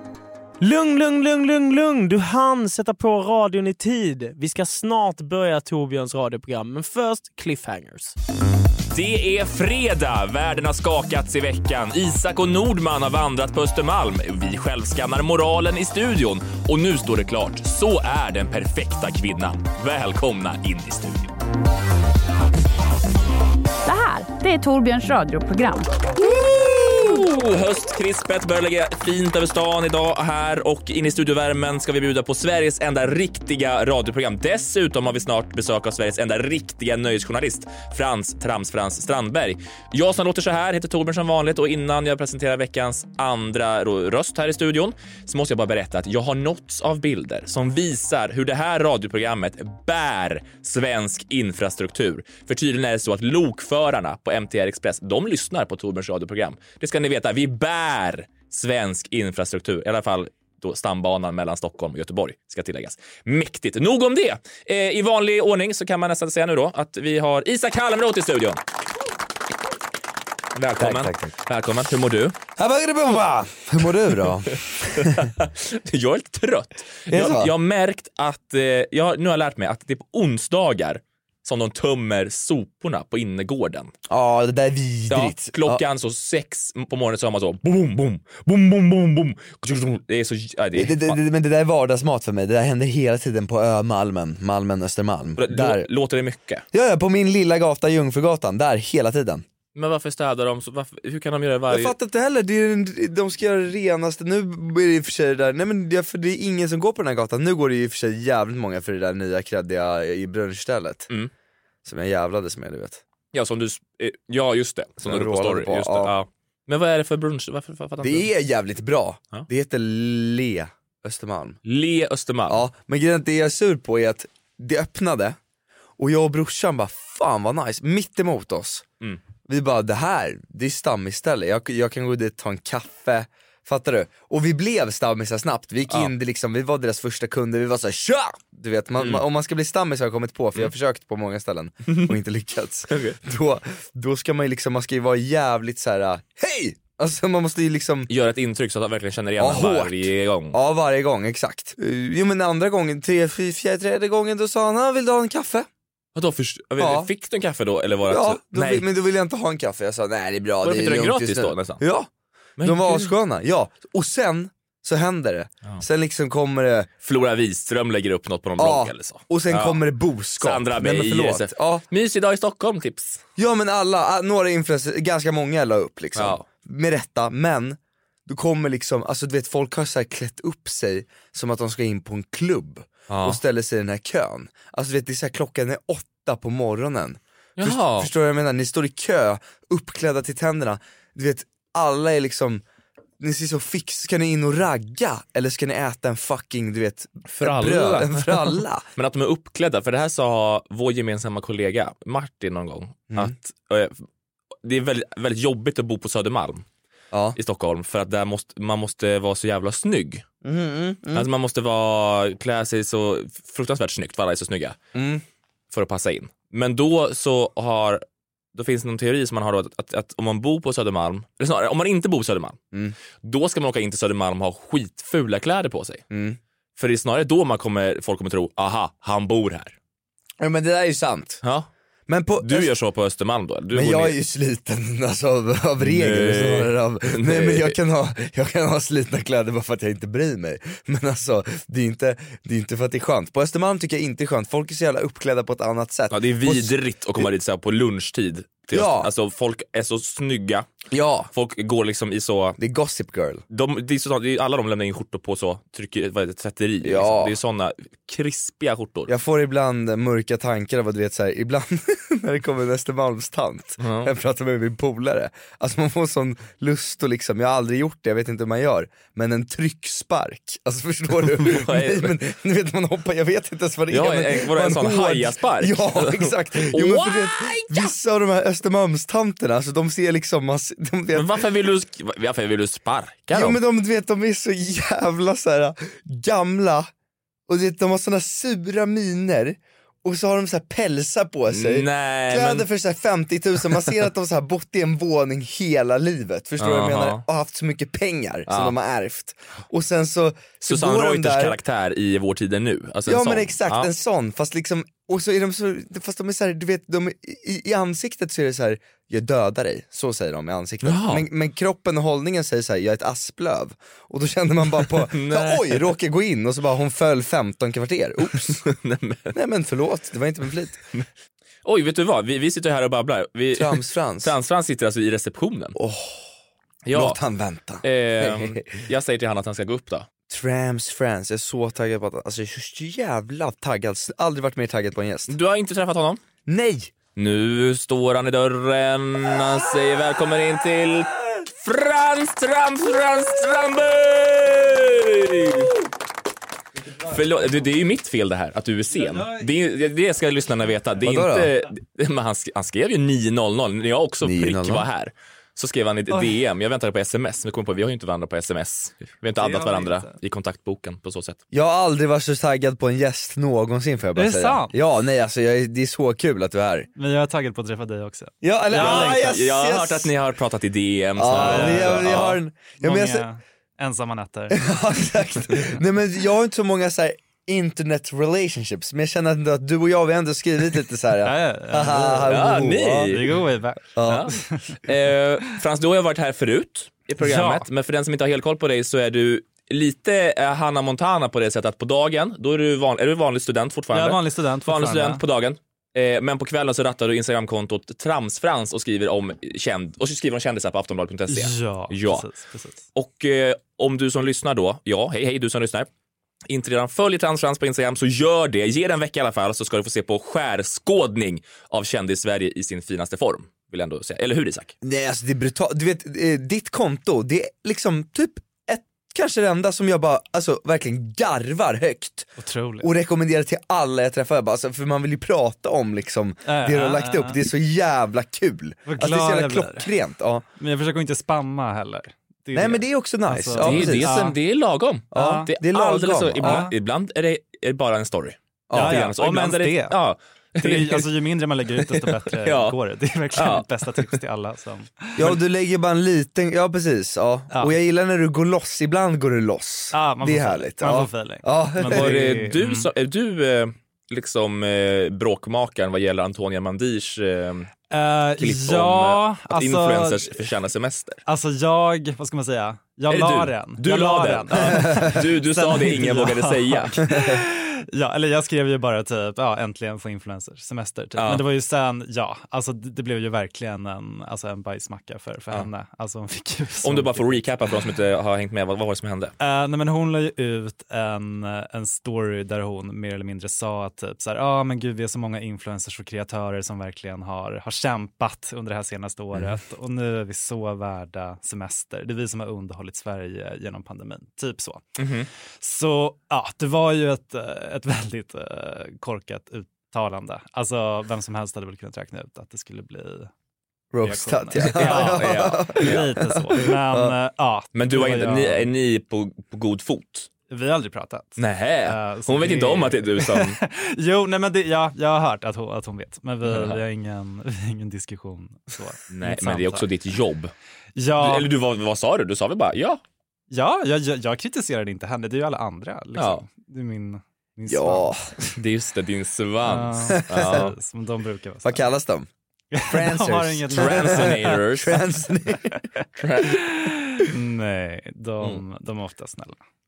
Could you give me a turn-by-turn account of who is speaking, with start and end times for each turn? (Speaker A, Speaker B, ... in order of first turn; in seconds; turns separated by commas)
Speaker A: 0.6-8.1, Speaker B: 8.9-21.3, Speaker C: 23.8-25.9, Speaker B: 26.3-68.6, Speaker B: 70.5-72.3, Speaker D: 70.8-71.3, Speaker D: 72.6-75.3, Speaker B: 74.9-83.9, Speaker D: 77.1-77.5, Speaker D: 84.1-85.8, Speaker B: 85.1-91.2, Speaker D: 90.7-95.9, Speaker B: 95.4-96.6, Speaker D: 96.7-99.4, Speaker B: 99.7-101.9, Speaker D: 101.7-111.1, Speaker D: 111.8-113.0, Speaker B: 113.3-118.3, Speaker D: 115.0-116.1, Speaker D: 118.0-121.6, Speaker B: 121.6-122.6, Speaker D: 122.5-125.4, Speaker D: 126.0-128.8, Speaker D: 129.5-148.1, Speaker B: 139.0-139.2, Speaker B: 141.9-142.2, Speaker B: 142.9-143.2, Speaker B: 148.1-150.6, Speaker D: 149.4-155.7, Speaker B: 156.1-158.8, Speaker D: 156.8-157.1, Speaker D: 158.1-166.9, Speaker B: 160.6-161.8, Speaker B: 162.6-163.1, Speaker B: 167.0-169.8, Speaker D: 168.6-171.8, Speaker B: 170.4-173.2, Speaker D: 173.4-192.6, Speaker B: 176.2-176.4, Speaker B: 183.1-183.4, Speaker B: 187.6-188.1, Speaker D: 193.2-198.8, Speaker B: 197.3-204.0, Speaker B: 204.6-206.6, Speaker D: 207.1-207.4, Speaker B: 207.3-210.2, Speaker D: 210.4-211.3, Speaker B: 211.1-214.8, Speaker D: 214.9-215.2, Speaker B: 215.7-218.0, Speaker B: 218.5-222.6, Speaker B: 223.2-226.0, Speaker D: 226.1-226.4, Speaker B: 226.8-229.7, Speaker D: 230.4-231.4, Speaker B: 231.4-231.7, Speaker D: 232.1-232.7, Speaker B: 232.4-234.1, Speaker D: 233.7-247.3, Speaker B: 235.8-237.8, Speaker B: 246.1-250.7, Speaker D: 248.7-249.1, Speaker D: 250.9-251.3, Speaker B: 251.3-252.6, Speaker D: 252.6-253.4, Speaker B: 253.5-259.1, Speaker D: 256.8-257.3, Speaker D: 259.1-281.4, Speaker B: 263.8-264.1, Speaker B: 271.2-272.1, Speaker B: 273.9-277.9, Speaker B: 281.1-283.6, Speaker D: 283.3-286.9, Speaker D: 287.5-301.6, Speaker B: 291.5-292.7, Speaker B: 296.6-297.2, Speaker B: 298.5-298.7, Speaker B: 300.6-303.9, Speaker D: 303.1-318.6, Speaker B: 310.8-311.3, Speaker B: 314.9-315.9, Speaker B: 318.2-319.4, Speaker D: 319.3-320.8, Speaker B: 321.6-325.8, Speaker D: 323.5-324.3, Speaker D: 325.7-326.2, Speaker B: 326.9-327.2, Speaker D: 326.9-328.6, Speaker B: 327.8-330.1, Speaker D: 330.3-335.3, Speaker B: 335.3-336.2, Speaker D: 336.4-336.9, Speaker B: 337.1-345.7, Speaker B: 347.0-361.4, Speaker E: 349.1-349.4, Speaker D: 351.0-351.5, Speaker D: 354.2-354.9, Speaker E: 356.1-356.4, Speaker E: 359.4-360.1, Speaker D: 361.5-366.9, Speaker E: 364.1-364.8, Speaker E: 366.9-369.3, Speaker D: 368.4-370.1, Speaker B: 368.7-372.4, Speaker D: 371.2-373.2, Speaker E: 371.3-374.6, Speaker D: 374.5-383.1, Speaker E: 381.2-383.8, Speaker B: 382.3-383.3, Speaker D: 383.9-384.3, Speaker B: 384.0-402.2, Speaker E: 384.4-384.7, Speaker E: 387.2-387.6, Speaker E: 393.9-395.2, Speaker E: 401.3-402.8, Speaker B: 402.9-405.9, Speaker B: 406.5-414.7, Speaker D: 414.8-422.3, Speaker E: 422.4-422.9, Speaker D: 422.8-430.4, Speaker E: 426.4-427.4, Speaker E: 428.9-429.9, Speaker E: 430.6-434.3, Speaker D: 432.5-434.3, Speaker B: 433.6-441.1, Speaker D: 435.1-436.7, Speaker E: 435.1-435.5, Speaker E: 436.4-436.7, Speaker D: 438.7-439.0, Speaker E: 438.7-439.9, Speaker E: 440.6-445.3, Speaker B: 441.9-442.8, Speaker B: 443.3-444.1, Speaker D: 445.1-452.2, Speaker E: 447.5-447.8, Speaker E: 449.9-452.9, Speaker B: 451.9-457.7, Speaker E: 457.9-460.3, Speaker B: 458.4-461.2, Speaker E: 461.2-477.4, Speaker B: 463.1-467.1, Speaker D: 464.7-465.0, Speaker B: 471.2-471.4, Speaker B: 476.8-479.3, Speaker E: 479.4-494.8, Speaker B: 495.0-495.3, Speaker E: 495.6-503.3, Speaker D: 503.9-507.1, Speaker E: 504.0-508.6, Speaker B: 504.6-506.1, Speaker B: 507.7-510.3, Speaker E: 510.5-519.9, Speaker B: 511.4-513.6, Speaker B: 516.5-516.8, Speaker B: 519.1-520.5, Speaker E: 521.0-521.5, Speaker B: 521.2-523.0, Speaker E: 523.5-528.1, Speaker B: 526.1-526.4, Speaker D: 527.7-528.3, Speaker B: 528.5-530.7, Speaker E: 529.6-531.9, Speaker D: 530.1-530.7, Speaker D: 531.6-532.3, Speaker E: 532.7-534.5, Speaker D: 532.9-535.7, Speaker B: 533.7-535.0, Speaker B: 536.2-536.6, Speaker E: 536.5-539.6